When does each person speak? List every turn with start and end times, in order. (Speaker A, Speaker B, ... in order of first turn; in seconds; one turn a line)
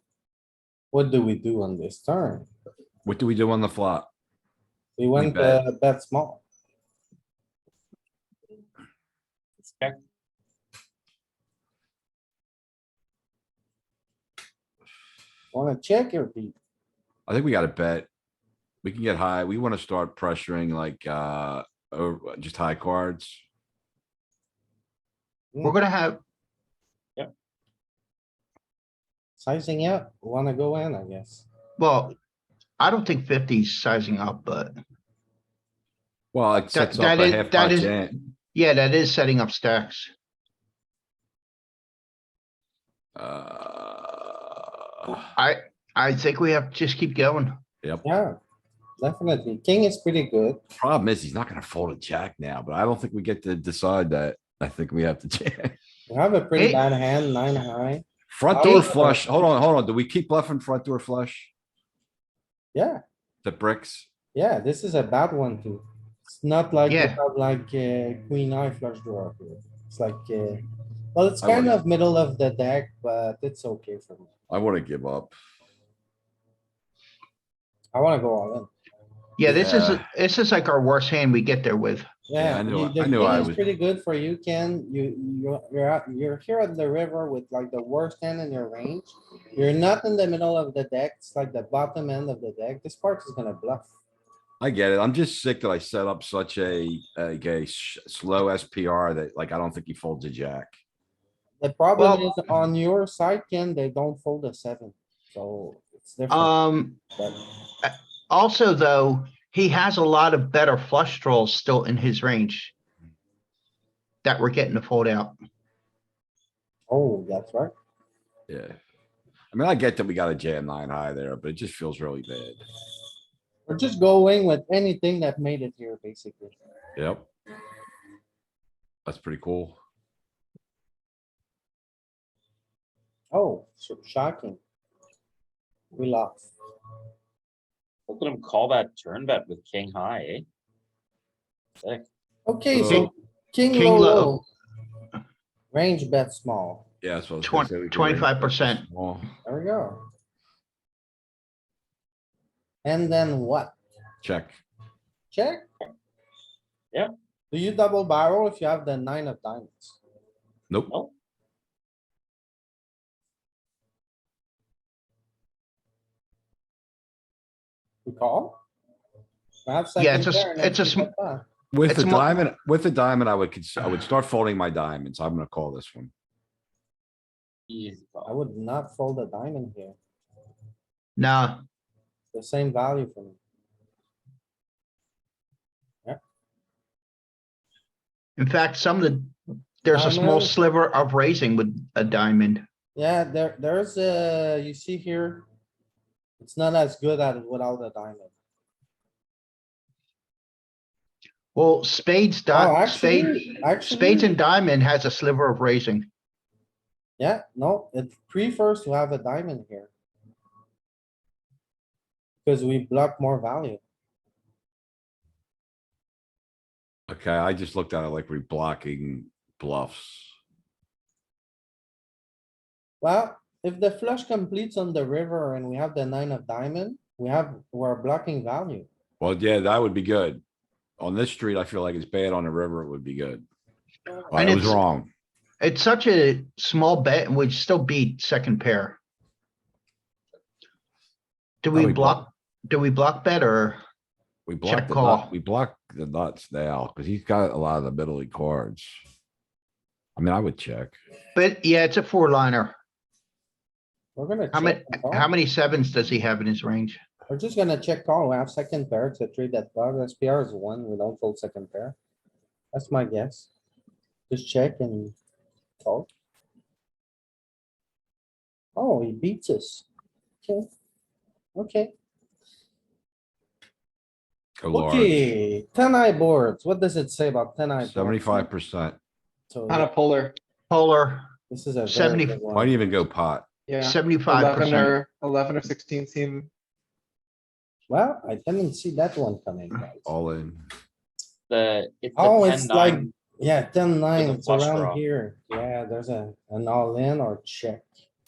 Speaker A: 0.9-2.5
Speaker B: 3.0-4.1
Speaker A: 5.0-6.4
Speaker B: 5.2-5.6
Speaker C: 9.6-10.0
Speaker A: 15.5-16.6
Speaker B: 17.3-18.1
Speaker B: 18.8-23.4
Speaker D: 25.6-26.2
Speaker A: 29.4-31.4
Speaker D: 31.8-32.2
Speaker D: 32.8-34.7
Speaker B: 36.3-38.1
Speaker D: 36.7-40.1
Speaker B: 43.2-45.3
Speaker D: 45.4-47.6
Speaker A: 48.0-48.4
Speaker A: 49.0-50.6
Speaker B: 50.8-55.8
Speaker A: 56.1-59.5
Speaker D: 56.6-56.8
Speaker B: 58.3-61.5
Speaker D: 58.6-58.9
Speaker A: 62.7-63.0
Speaker B: 63.4-64.1
Speaker A: 64.3-70.6
Speaker D: 66.9-67.2
Speaker A: 71.2-74.3
Speaker B: 71.4-71.8
Speaker B: 74.5-75.3
Speaker A: 77.9-78.7
Speaker D: 79.4-82.1
Speaker B: 79.5-80.0
Speaker A: 82.3-93.9
Speaker B: 82.4-83.6
Speaker B: 94.6-100.8
Speaker A: 101.6-107.4
Speaker D: 102.0-102.3
Speaker D: 106.3-107.0
Speaker D: 107.8-112.7
Speaker D: 114.2-115.3
Speaker A: 116.9-117.7
Speaker B: 118.5-118.8
Speaker B: 119.5-122.6
Speaker A: 123.7-126.6
Speaker B: 127.0-127.3
Speaker B: 129.1-129.8
Speaker A: 133.3-134.6
Speaker A: 135.9-136.5
Speaker C: 138.1-140.5
Speaker C: 141.8-142.1
Speaker A: 142.5-144.5
Speaker B: 142.7-143.1
Speaker D: 143.7-144.4
Speaker A: 145.7-146.9
Speaker B: 147.0-149.3
Speaker D: 147.4-148.9
Speaker A: 149.4-150.0
Speaker A: 152.8-153.8
Speaker B: 154.2-154.6
Speaker A: 155.3-155.7
Speaker A: 157.5-160.0
Speaker A: 168.1-168.6
Speaker A: 169.7-171.4
Speaker D: 170.0-171.1
Speaker B: 171.7-176.1
Speaker D: 171.9-172.4
Speaker C: 177.7-178.3
Speaker A: 178.3-180.0
Speaker D: 181.2-181.7
Speaker A: 182.3-183.4
Speaker D: 188.4-192.6
Speaker A: 189.9-190.6
Speaker A: 192.9-195.4
Speaker A: 196.4-198.3
Speaker D: 201.6-206.1
Speaker A: 202.5-204.3
Speaker A: 207.2-209.9
Speaker A: 212.4-213.8
Speaker B: 217.1-220.3
Speaker A: 223.0-228.9
Speaker B: 229.2-230.4
Speaker B: 231.0-233.4
Speaker B: 234.3-235.1
Speaker D: 234.3-234.8
Speaker D: 235.6-239.0
Speaker D: 241.6-243.8
Speaker B: 241.7-242.2
Speaker B: 244.5-249.0
Speaker D: 244.7-245.3
Speaker B: 250.2-250.9
Speaker D: 251.3-252.8
Speaker A: 254.2-255.3
Speaker D: 254.5-257.0
Speaker A: 257.3-262.0
Speaker A: 262.7-263.5
Speaker A: 264.3-265.1
Speaker A: 265.8-266.1
Speaker A: 268.8-269.9
Speaker A: 271.6-271.9
Speaker B: 274.6-275.2
Speaker A: 274.7-278.5
Speaker B: 277.8-279.0
Speaker A: 279.5-279.9
Speaker E: 279.7-280.4
Speaker D: 280.7-281.3
Speaker A: 281.5-282.9
Speaker D: 281.9-282.4
Speaker B: 282.5-283.5
Speaker E: 283.7-286.5
Speaker D: 283.8-284.9
Speaker A: 287.9-290.1
Speaker B: 290.1-290.7
Speaker C: 291.5-293.1
Speaker A: 292.2-297.9
Speaker C: 294.1-295.0